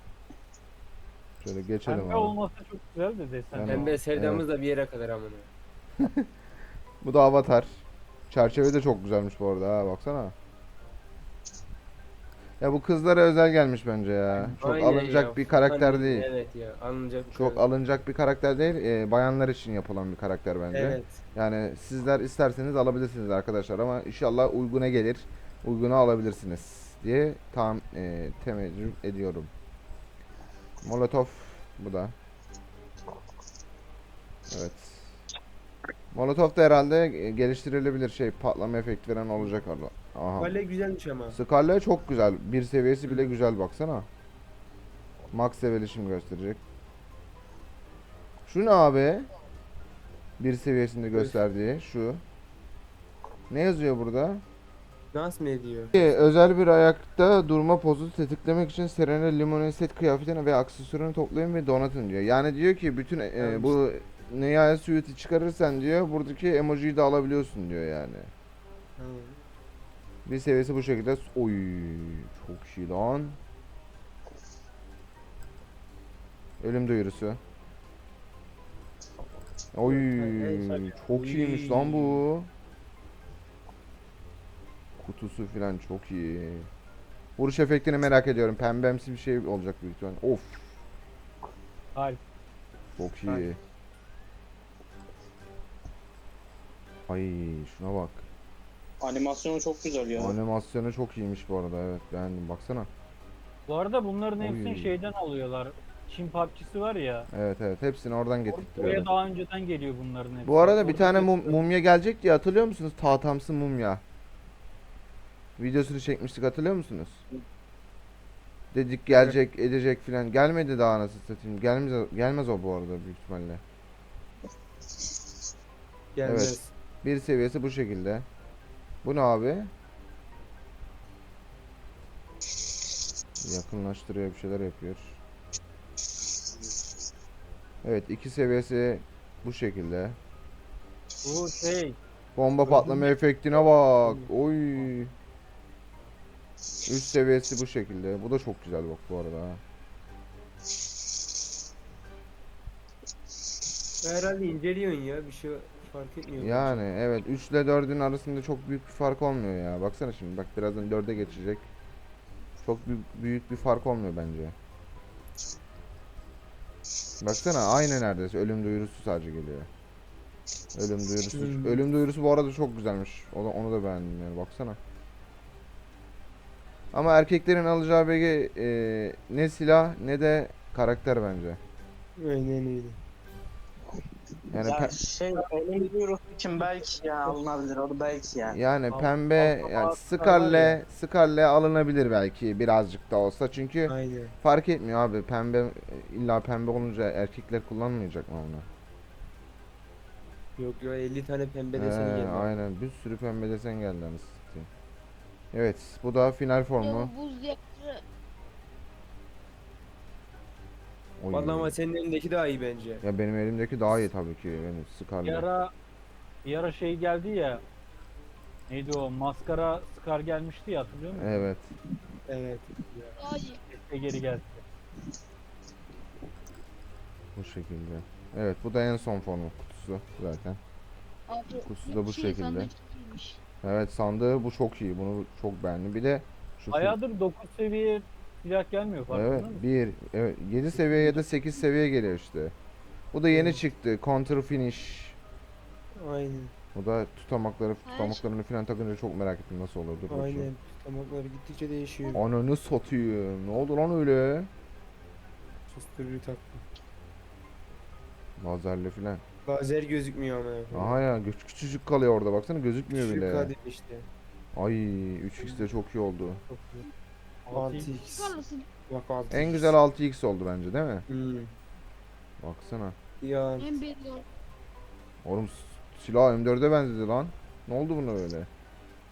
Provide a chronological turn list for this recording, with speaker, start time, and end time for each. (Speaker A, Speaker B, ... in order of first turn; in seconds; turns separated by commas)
Speaker A: 1.4-2.4, Speaker B: 1.9-4.0, Speaker A: 3.5-4.5, Speaker C: 3.7-5.5, Speaker A: 6.0-6.3, Speaker A: 7.0-10.3, Speaker A: 12.6-16.3, Speaker C: 14.4-17.6, Speaker A: 17.3-29.5, Speaker C: 20.7-21.2, Speaker A: 30.8-32.1, Speaker A: 34.5-35.2, Speaker A: 36.1-40.6, Speaker C: 40.4-41.4, Speaker A: 41.3-44.1, Speaker C: 43.1-43.3, Speaker A: 45.3-46.6, Speaker A: 48.5-49.3, Speaker A: 50.4-52.2, Speaker C: 51.1-51.4, Speaker A: 53.5-54.4, Speaker C: 55.1-55.9, Speaker A: 56.0-68.3, Speaker C: 63.4-63.8, Speaker C: 69.0-69.4, Speaker A: 70.3-73.4, Speaker A: 76.6-77.4, Speaker A: 79.7-82.5, Speaker C: 79.8-82.3, Speaker A: 85.0-86.7, Speaker A: 87.4-90.7, Speaker B: 91.9-92.2, Speaker A: 93.0-93.6, Speaker A: 97.1-98.2, Speaker D: 99.0-100.3, Speaker A: 100.2-102.9, Speaker B: 103.7-107.3, Speaker A: 104.4-105.0, Speaker A: 107.3-109.1, Speaker B: 108.5-111.6, Speaker A: 110.5-114.0, Speaker A: 115.6-117.2, Speaker A: 118.7-123.6, Speaker C: 119.1-119.4, Speaker C: 126.2-126.7, Speaker A: 126.2-128.3, Speaker A: 129.0-129.7, Speaker A: 133.4-135.2, Speaker A: 137.8-140.2, Speaker B: 141.2-142.0, Speaker A: 142.3-145.1, Speaker C: 142.7-143.1, Speaker C: 143.7-144.3, Speaker A: 146.8-149.6, Speaker C: 154.0-156.9, Speaker A: 156.4-161.7, Speaker A: 162.6-164.6, Speaker A: 167.2-169.7, Speaker A: 170.8-174.8, Speaker C: 171.3-171.8, Speaker A: 176.9-181.6, Speaker C: 182.2-183.0, Speaker A: 184.5-185.0, Speaker D: 184.6-188.6, Speaker C: 185.7-185.9, Speaker A: 188.5-198.7, Speaker B: 188.9-190.6, Speaker C: 190.4-190.8, Speaker C: 193.9-194.3, Speaker C: 200.6-202.6, Speaker A: 201.8-204.7, Speaker A: 205.5-207.1, Speaker E: 206.8-208.0, Speaker A: 211.2-211.7, Speaker C: 211.3-213.0, Speaker A: 213.0-215.5, Speaker B: 215.2-215.7, Speaker B: 216.4-217.6, Speaker B: 218.7-221.5, Speaker A: 221.1-221.7, Speaker C: 222.3-223.2, Speaker E: 223.2-223.6, Speaker B: 223.6-224.6, Speaker A: 227.4-230.6, Speaker E: 231.3-233.4, Speaker A: 231.7-232.7, Speaker A: 233.6-237.0, Speaker B: 236.7-239.6, Speaker A: 239.1-242.5, Speaker C: 240.7-241.2, Speaker A: 243.1-245.2, Speaker C: 243.3-243.6, Speaker C: 246.0-246.5, Speaker A: 246.8-250.5, Speaker E: 247.9-248.2, Speaker C: 250.1-252.2, Speaker A: 252.1-254.5, Speaker C: 255.7-256.6, Speaker A: 258.4-259.2, Speaker C: 259.4-261.0, Speaker A: 260.7-263.5, Speaker C: 262.9-264.1, Speaker A: 264.6-266.4, Speaker C: 266.5-266.9, Speaker B: 267.5-267.9, Speaker C: 267.5-269.7, Speaker E: 268.1-268.7, Speaker A: 269.3-271.1, Speaker C: 271.1-271.5, Speaker A: 272.4-272.9, Speaker C: 273.2-273.7, Speaker E: 273.6-274.3, Speaker A: 275.2-278.5